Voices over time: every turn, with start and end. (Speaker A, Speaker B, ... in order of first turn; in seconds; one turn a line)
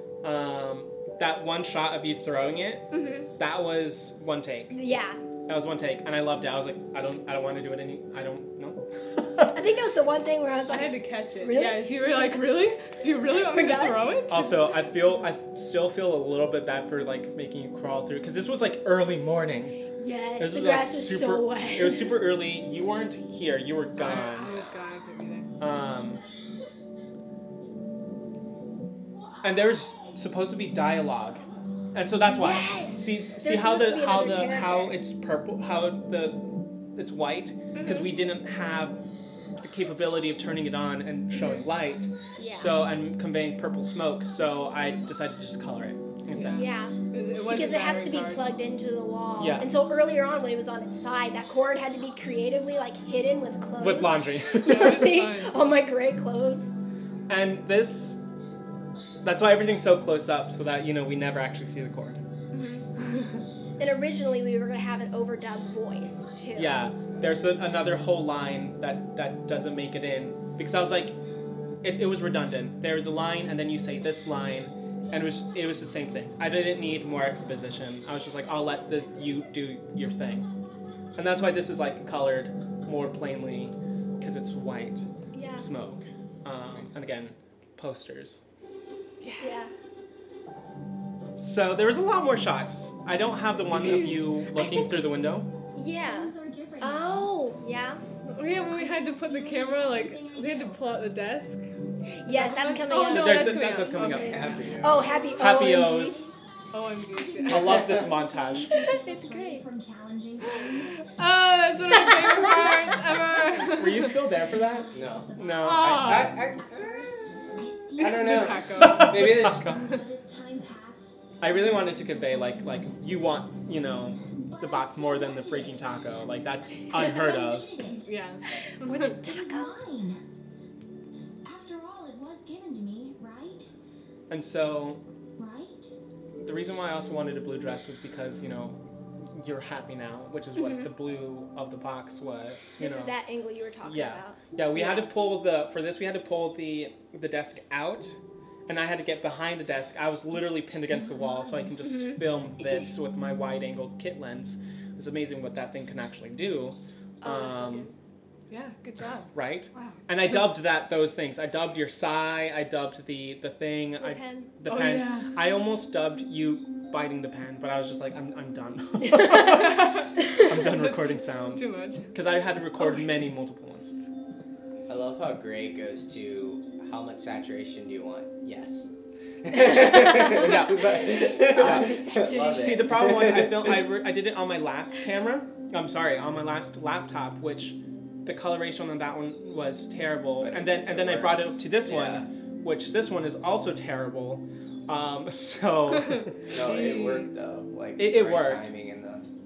Speaker A: 0.2-4.7
Speaker B: 2.9-3.3
Speaker B: 4.7-5.2
Speaker A: 5.5-9.6
Speaker B: 9.5-12.4
Speaker C: 10.7-14.6
Speaker B: 13.4-14.0
Speaker A: 14.3-19.8
Speaker B: 20.0-22.2
Speaker A: 20.4-24.7
Speaker C: 24.0-25.5
Speaker B: 24.0-24.5
Speaker A: 25.6-26.2
Speaker A: 29.4-31.4
Speaker A: 31.9-39.0
Speaker B: 32.3-35.0
Speaker B: 37.7-38.1
Speaker A: 39.6-46.7
Speaker B: 42.4-42.7
Speaker C: 46.3-48.5
Speaker B: 46.5-56.7
Speaker A: 49.4-49.7
Speaker A: 53.8-55.1
Speaker C: 54.6-55.5
Speaker A: 57.3-58.2
Speaker A: 59.2-62.2
Speaker B: 62.5-62.8
Speaker B: 63.8-66.8
Speaker A: 66.5-71.2
Speaker A: 71.8-80.5
Speaker A: 81.2-88.4
Speaker B: 85.3-85.7
Speaker D: 86.8-87.1
Speaker C: 89.2-89.6
Speaker B: 89.4-89.7
Speaker A: 91.4-95.5
Speaker B: 94.6-94.9
Speaker B: 95.7-98.0
Speaker E: 95.9-97.4
Speaker C: 98.3-101.7
Speaker E: 98.7-100.8
Speaker B: 102.2-106.2
Speaker C: 102.3-104.6
Speaker A: 102.9-104.5
Speaker D: 104.1-105.3
Speaker E: 104.4-106.3
Speaker A: 105.4-106.3
Speaker C: 106.7-107.9
Speaker E: 107.1-111.1
Speaker A: 107.5-108.7
Speaker B: 108.7-109.6
Speaker C: 110.8-114.2
Speaker E: 111.8-123.2
Speaker A: 113.7-116.2
Speaker D: 114.9-115.3
Speaker C: 115.6-116.5
Speaker D: 115.8-117.2
Speaker C: 118.0-120.0
Speaker D: 118.0-119.7
Speaker A: 118.8-119.8
Speaker A: 121.4-127.7
Speaker E: 124.0-128.2
Speaker C: 128.1-129.1
Speaker B: 128.8-129.9
Speaker E: 129.2-130.2
Speaker E: 131.4-133.7
Speaker A: 134.3-135.0
Speaker E: 135.3-135.9
Speaker A: 136.4-143.2
Speaker B: 142.8-144.4
Speaker A: 143.8-157.9
Speaker E: 150.8-151.9
Speaker B: 151.8-152.2
Speaker B: 157.2-157.9
Speaker C: 158.5-160.0
Speaker A: 159.3-173.9
Speaker B: 164.0-164.5
Speaker C: 164.7-165.3
Speaker C: 169.5-172.1
Speaker D: 174.9-178.8
Speaker D: 179.4-183.8
Speaker B: 179.6-182.9
Speaker A: 180.3-181.9
Speaker A: 182.4-196.5
Speaker D: 190.4-192.3
Speaker C: 196.1-197.3
Speaker D: 196.5-199.2
Speaker A: 198.0-198.7